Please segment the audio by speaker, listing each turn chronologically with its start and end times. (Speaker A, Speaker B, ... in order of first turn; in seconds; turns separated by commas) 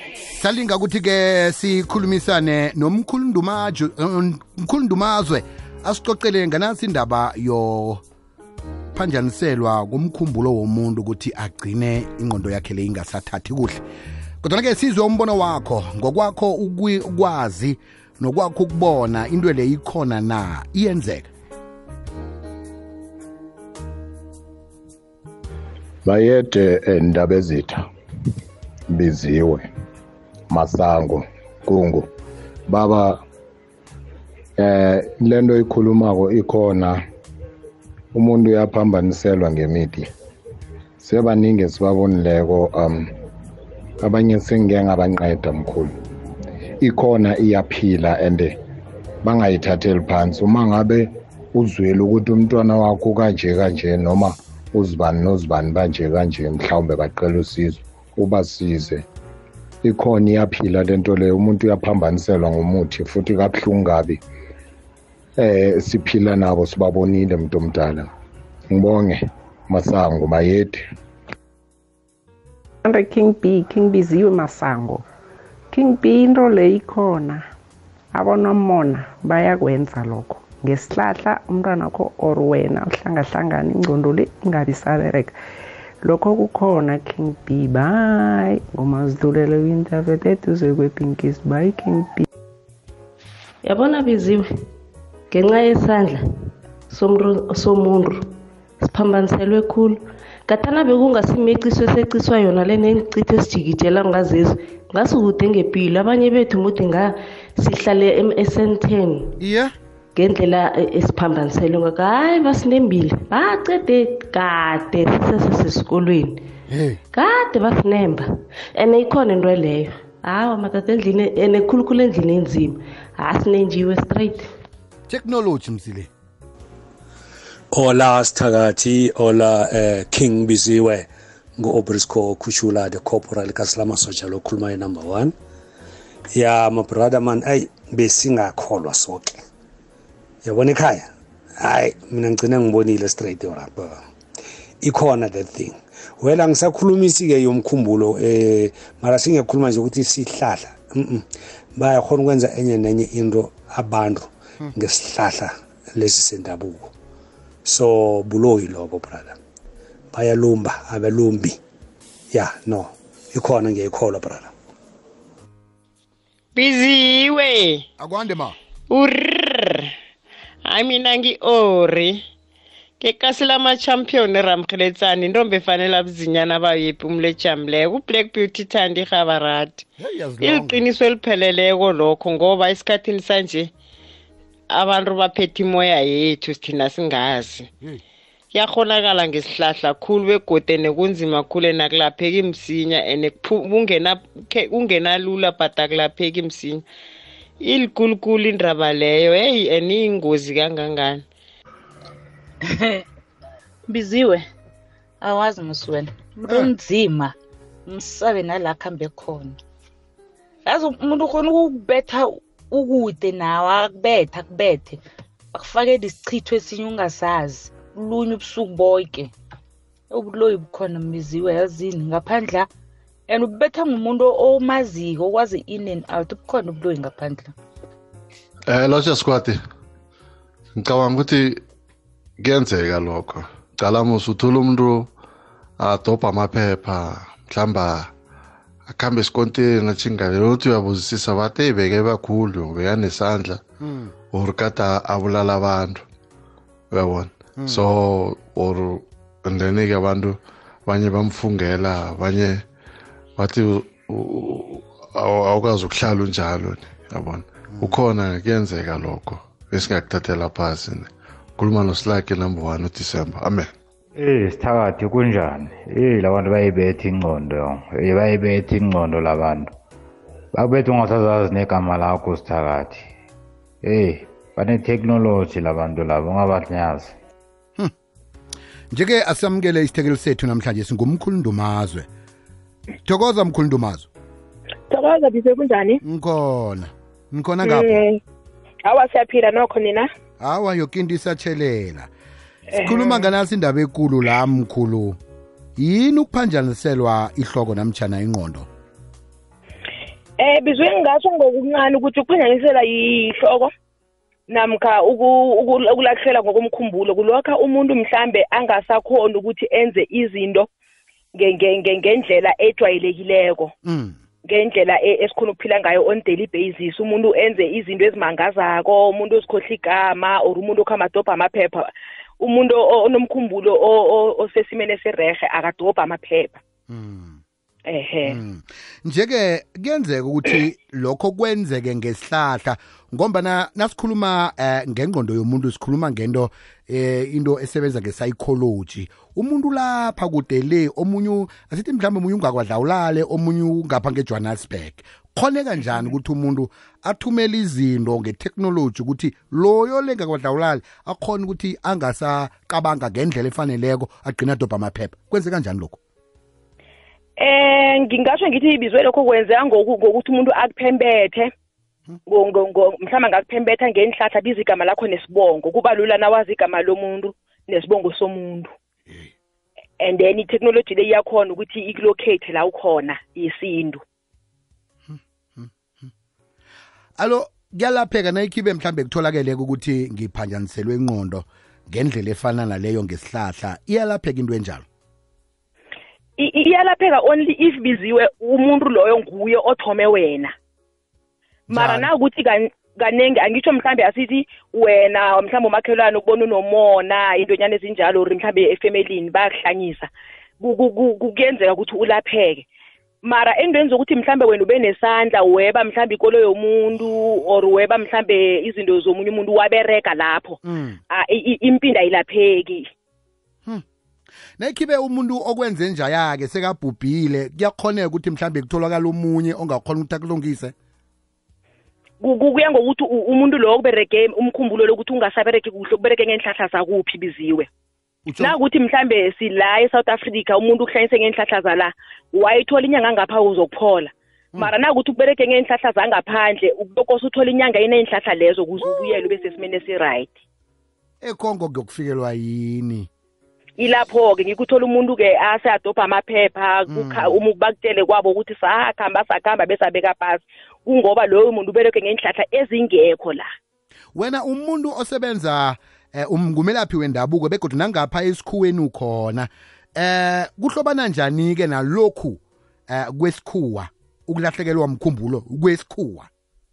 Speaker A: 0.3-8.0, Speaker A: 8.9-13.8, Speaker A: 14.4-21.3, Speaker B: 26.0-27.8, Speaker B: 28.9-29.7, Speaker B: 30.5-32.1, Speaker B: 32.7-33.2, Speaker B: 34.6-37.0, Speaker B: 38.1-40.1, Speaker B: 41.0-43.1, Speaker B: 44.0-45.9, Speaker B: 46.8-48.5, Speaker B: 49.2-59.0, Speaker B: 59.8-64.2, Speaker B: 65.4-68.1, Speaker B: 68.7-70.8, Speaker C: 72.8-75.0, Speaker C: 75.7-77.5, Speaker C: 78.1-85.4, Speaker C: 86.0-92.2, Speaker D: 93.6-94.5, Speaker D: 95.3-96.2, Speaker D: 96.9-98.2, Speaker D: 98.8-109.3, Speaker A: 109.4-109.7, Speaker D: 110.1-116.4, Speaker A: 116.7-117.0, Speaker D: 117.1-124.4, Speaker A: 125.1-126.1, Speaker E: 127.7-135.3, Speaker E: 136.3-139.4, Speaker E: 140.4-144.0, Speaker E: 144.8-156.9, Speaker E: 157.6-159.3, Speaker E: 160.1-161.6, Speaker E: 162.3-164.5, Speaker F: 166.5-167.8, Speaker A: 168.0-168.6, Speaker F: 168.9-169.9, Speaker F: 170.6-172.2, Speaker F: 173.0-179.8, Speaker A: 180.0-180.8, Speaker F: 180.4-183.7, Speaker F: 184.7-187.7, Speaker F: 188.5-196.8, Speaker F: 197.6-201.2, Speaker G: 202.6-203.0, Speaker G: 203.9-204.4, Speaker G: 205.2-207.3, Speaker G: 207.8-209.6, Speaker G: 210.7-215.0, Speaker G: 215.5-219.3, Speaker G: 220.1-222.7, Speaker G: 223.3-227.5, Speaker H: 228.7-229.6, Speaker H: 230.7-231.6, Speaker H: 232.4-235.1, Speaker H: 235.8-238.1, Speaker H: 238.9-243.6, Speaker A: 243.8-244.1, Speaker H: 244.3-246.0, Speaker H: 246.9-252.6, Speaker A: 247.6-247.8, Speaker H: 253.4-263.7, Speaker I: 264.1-269.7, Speaker I: 270.5-273.1, Speaker I: 273.8-277.1, Speaker A: 278.9-282.1, Speaker A: 283.0-284.1, Speaker J: 284.9-286.0, Speaker A: 286.0-288.1, Speaker J: 287.6-288.2, Speaker J: 288.8-290.1, Speaker A: 290.4-292.1, Speaker J: 292.7-293.3, Speaker A: 292.8-295.2, Speaker A: 295.8-298.7, Speaker J: 300.4-303.7, Speaker J: 304.5-310.7, Speaker J: 311.3-313.7, Speaker A: 313.8-314.1, Speaker J: 314.4-326.6, Speaker A: 326.9-327.4, Speaker J: 327.8-328.4, Speaker A: 328.2-356.0, Speaker J: 357.4-361.5, Speaker J: 362.2-368.7, Speaker J: 370.0-374.0, Speaker A: 375.1-375.7, Speaker A: 377.2-384.8, Speaker J: 386.4-390.5, Speaker J: 391.7-400.1, Speaker A: 391.7-392.1, Speaker J: 400.6-402.6, Speaker J: 403.2-412.9, Speaker A: 410.6-411.0, Speaker A: 414.6-420.7, Speaker J: 422.2-427.7, Speaker A: 428.2-428.5, Speaker J: 428.4-440.4, Speaker A: 439.0-439.2, Speaker A: 441.2-443.1, Speaker J: 443.8-453.5, Speaker A: 446.9-447.4, Speaker A: 454.1-466.3